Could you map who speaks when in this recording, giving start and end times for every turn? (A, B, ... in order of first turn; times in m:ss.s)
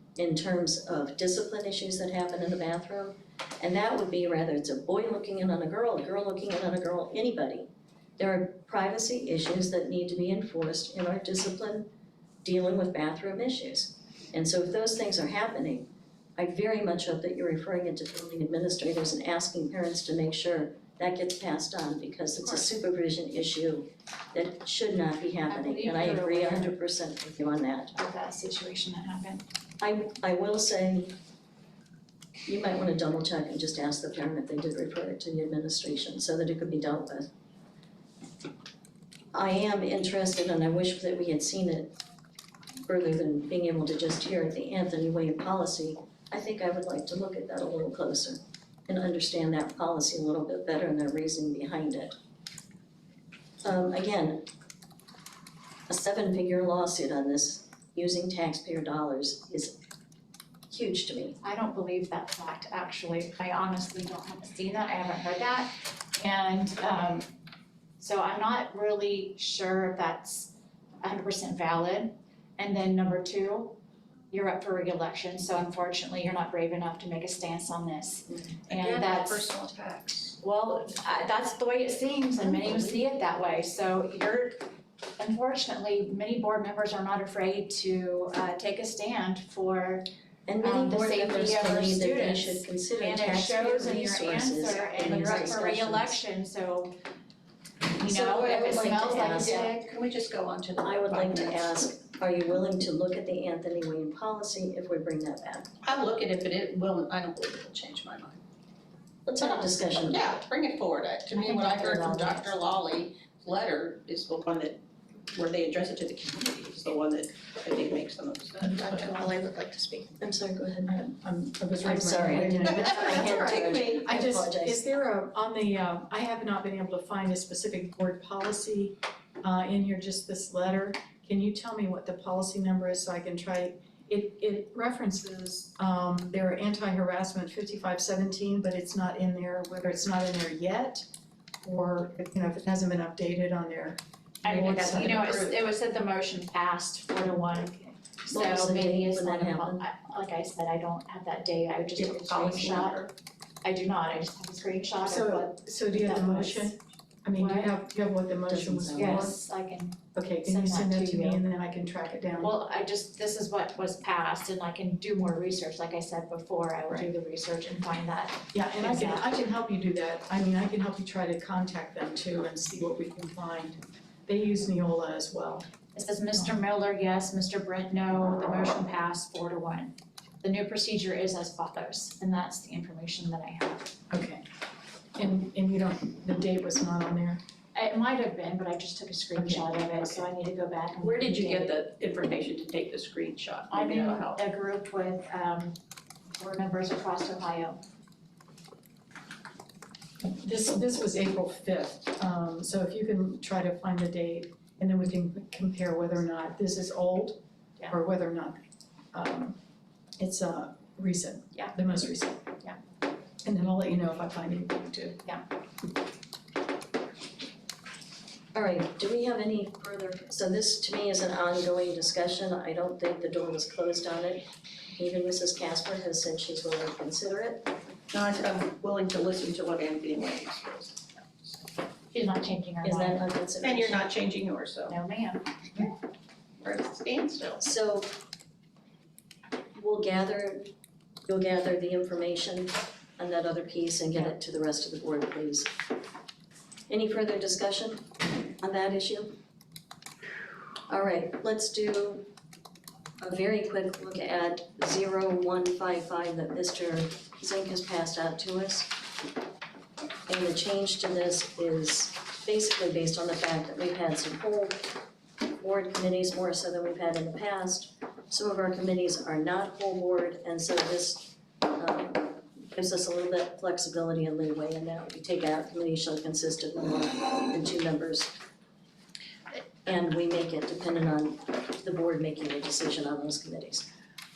0:00.2-0:11.9 A
0:12.4-0:27.9 A
0:25.5-0:26.7 B
0:28.0-0:29.4 B
0:29.8-0:31.2 A
0:32.5-0:37.3 A
0:39.3-0:42.0 A
0:42.9-0:52.2 A
0:53.6-0:54.5 A
0:55.9-0:59.8 A
1:00.7-1:01.4 A
1:01.4-1:07.3 B
1:08.0-1:13.8 B
1:14.3-1:19.4 B
1:18.7-1:20.4 C
1:20.4-1:24.6 B
1:25.2-1:30.1 B
1:30.5-1:36.2 A
1:30.6-1:37.0 B
1:35.0-1:35.6 C
1:38.0-1:39.8 B
1:38.0-1:39.7 A
1:38.6-1:41.8 C
1:40.8-1:45.7 A
1:45.8-1:48.4 C
1:49.3-1:50.3 A
1:49.4-2:00.1 C
1:51.4-1:52.5 B
2:00.2-2:01.0 A
2:00.9-2:21.1 D
2:01.8-2:04.9 A
2:02.6-2:04.1 C
2:21.6-2:25.2 D
2:24.4-2:33.0 B
2:24.5-2:25.5 C
2:28.3-2:29.8 A
2:32.0-2:33.1 C
2:33.6-2:36.7 B
2:35.0-2:39.4 D
2:37.4-2:37.7 B
2:38.5-2:39.3 A
2:38.9-2:41.4 B
2:40.2-2:42.5 D
2:42.4-2:49.3 B
2:48.5-2:55.7 D
2:55.9-3:04.0 B
3:04.1-3:04.4 D
3:05.2-3:07.4 D
3:07.8-3:11.8 B
3:09.4-3:10.2 D
3:11.0-3:14.4 C
3:13.7-3:15.8 B
3:16.4-3:17.8 B
3:20.2-3:28.6 D
3:29.1-3:29.6 D
3:30.2-3:32.5 D
3:33.4-3:35.2 D
3:38.5-3:44.4 A
3:45.0-3:47.7 A
3:48.1-3:51.7 C
3:52.1-3:53.2 B
3:52.8-3:54.1 A
3:53.6-3:55.0 C
3:54.9-3:55.9 B
3:56.6-3:57.6 C
3:57.6-3:58.2 A
3:59.8-4:00.7 A
4:01.3-4:05.7 A
4:06.9-4:08.1 A
4:08.6-4:09.4 A
4:10.9-4:12.2 A
4:13.2-4:18.9 A
4:20.3-4:24.9 A
4:25.6-4:38.4 A
4:39.8-4:43.9 A